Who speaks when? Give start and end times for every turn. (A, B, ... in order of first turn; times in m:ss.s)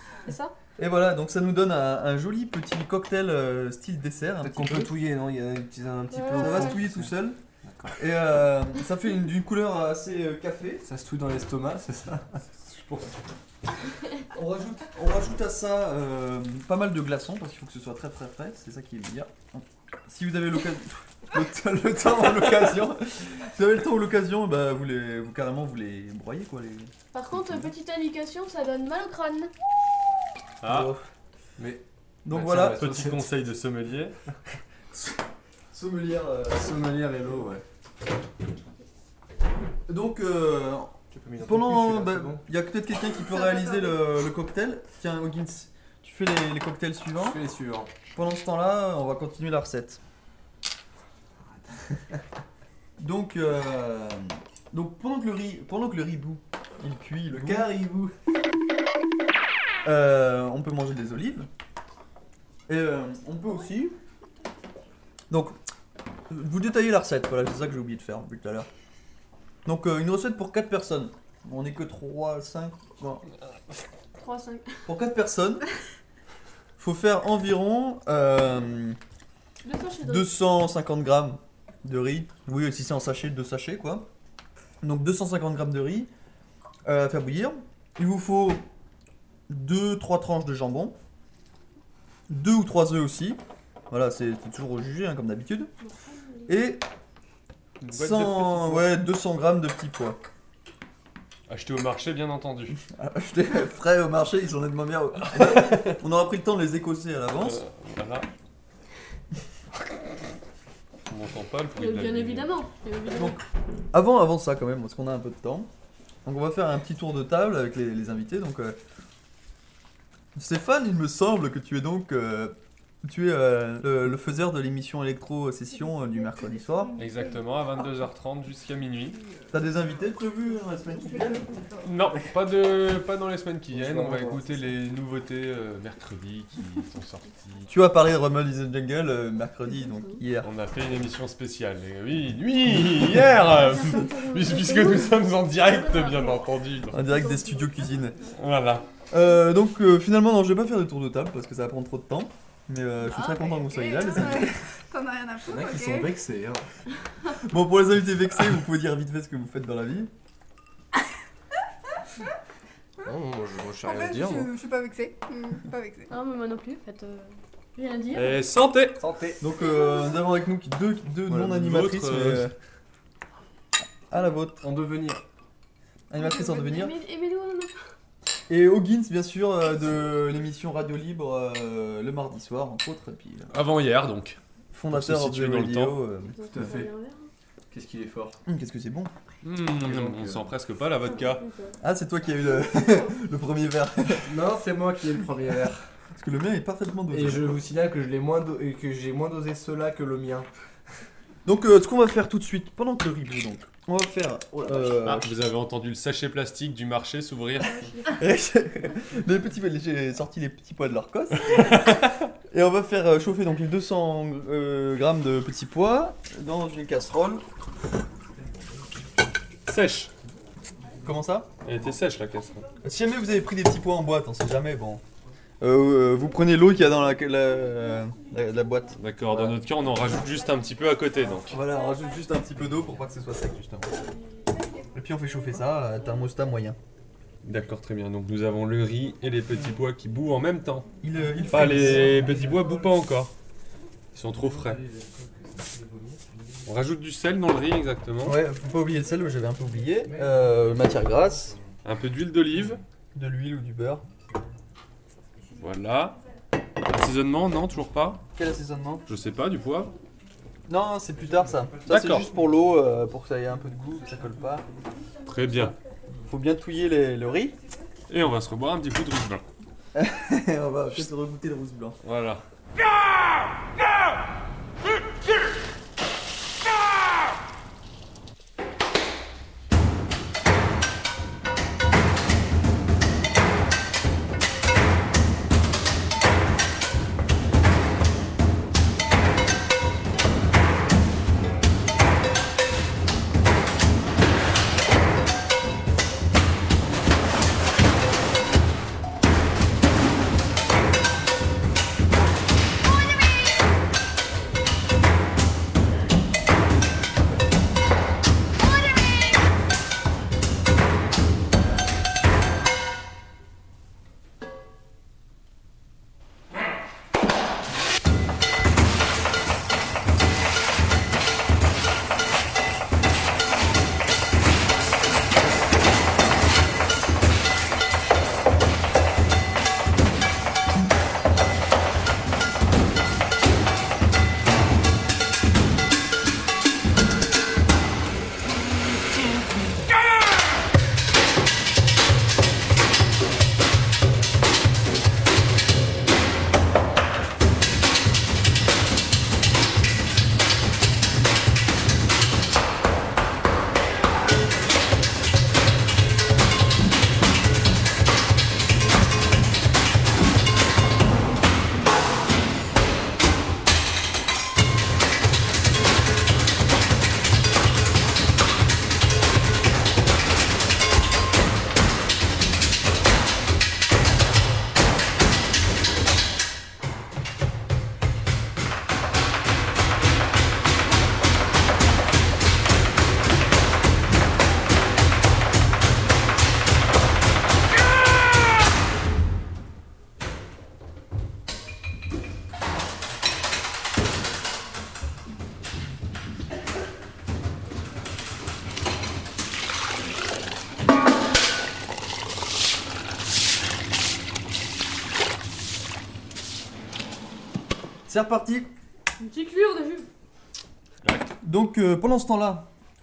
0:00.2-0:00.5 A
0:00.8-0:04.9 B
0:04.4-0:08.0 C
0:06.1-0:06.8 A
0:06.3-0:07.4 B
0:07.9-0:10.8 B
0:10.8-0:12.4 C
0:12.6-0:13.1 D
0:14.3-0:26.9 B
0:27.1-0:29.5 A
0:30.6-0:30.9 D
0:30.6-0:31.1 B
0:31.6-0:33.2 C
0:32.2-0:32.8 B
0:32.8-0:34.2 D
0:35.7-0:36.8 B
0:36.5-0:37.6 C
0:39.9-0:47.4 B
0:41.1-0:42.4 C
0:43.3-0:43.9 A
0:47.2-0:47.9 C
0:48.1-0:50.0 B
0:53.0-0:57.7 B
0:57.3-0:58.1 C
0:59.8-1:01.5 B
1:02.7-1:04.0 B
1:05.3-1:05.6 B
1:06.3-1:08.7 B
1:09.6-1:13.2 B
1:14.2-1:14.8 A
1:14.8-1:15.6 B
1:16.8-1:19.0 B
1:19.6-1:20.3 A
1:20.0-1:24.1 B
1:24.8-1:26.1 B
1:26.8-1:28.6 B
1:29.5-1:31.0 B
1:32.3-1:35.7 B
1:35.8-1:36.6 A
1:36.5-1:36.8 B
1:37.8-1:39.0 D
1:37.9-1:40.2 B
1:41.5-1:42.8 D
1:42.9-1:47.6 B
1:45.4-1:46.0 D
1:47.4-1:48.3 D
1:51.1-1:52.5 D
1:51.8-1:53.4 A
1:53.1-1:53.4 B
1:53.9-1:55.7 B
1:56.2-1:58.8 B
2:00.4-2:06.9 B
2:05.8-2:07.7 E
2:07.0-2:09.2 D
2:09.2-2:10.0 E
2:09.5-2:11.5 B
2:10.8-2:11.9 E
2:11.8-2:17.6 D
2:13.8-2:14.4 B
2:14.1-2:14.4 C
2:17.7-2:20.5 B
2:19.7-2:20.2 A
2:20.4-2:27.0 D
2:22.7-2:23.4 B
2:23.5-2:26.4 A
2:26.9-2:28.2 B
2:27.0-2:28.0 A
2:28.4-2:28.8 D
2:29.1-2:34.6 B
2:33.0-2:36.2 E
2:35.4-2:36.6 C
2:37.4-2:40.1 B
2:43.0-2:44.5 C
2:43.8-2:46.1 E
2:46.1-2:48.4 A
2:48.1-2:49.0 D
2:49.0-2:49.4 C
2:49.4-2:52.5 B
2:51.3-2:52.5 D
2:54.1-2:54.7 B
2:54.6-2:55.2 C
2:56.1-2:56.9 B
2:56.2-2:57.7 A
2:58.5-3:03.5 B
3:03.5-3:04.4 D
3:04.7-3:06.8 B
3:04.9-3:06.0 D
3:06.3-3:07.3 A
3:06.5-3:06.9 C
3:07.7-3:08.4 C
3:08.4-3:09.1 B
3:09.4-3:11.4 D
3:09.7-3:10.5 C
3:11.0-3:11.8 A
3:11.8-3:14.4 B
3:14.2-3:15.9 C
3:16.1-3:17.6 B
3:17.1-3:20.5 C
3:21.4-3:25.3 B
3:24.6-3:24.9 C
3:25.0-3:28.0 D
3:27.6-3:28.2 A
3:28.0-3:37.4 B
3:31.5-3:32.2 D
3:39.7-3:40.1 D
3:41.0-3:41.5 B
3:41.6-3:42.6 D
3:42.8-3:45.0 B
3:45.6-3:49.6 B
3:49.0-3:51.6 D
3:51.5-3:53.9 B
3:54.9-3:56.8 B
3:57.4-4:00.9 D
4:01.0-4:02.3 B
4:01.4-4:03.0 C
4:01.5-4:03.3 D
4:04.1-4:04.8 D
4:04.2-4:06.7 C
4:06.6-4:08.4 D
4:08.2-4:11.5 B
4:10.0-4:11.7 C
4:11.8-4:12.8 D
4:13.1-4:14.0 B
4:15.6-4:16.2 D
4:16.9-4:18.2 D
4:18.3-4:19.1 B
4:19.1-4:19.9 D
4:20.7-4:24.6 B
4:21.1-4:22.8 C
4:21.9-4:22.3 D
4:25.2-4:25.8 D
4:26.3-4:27.6 B
4:28.1-4:29.4 D
4:29.9-4:32.0 B
4:32.0-4:32.4 D
6:48.0-6:48.7 B
6:49.2-6:50.1 A
6:51.0-6:51.3 D
6:51.4-6:52.7 B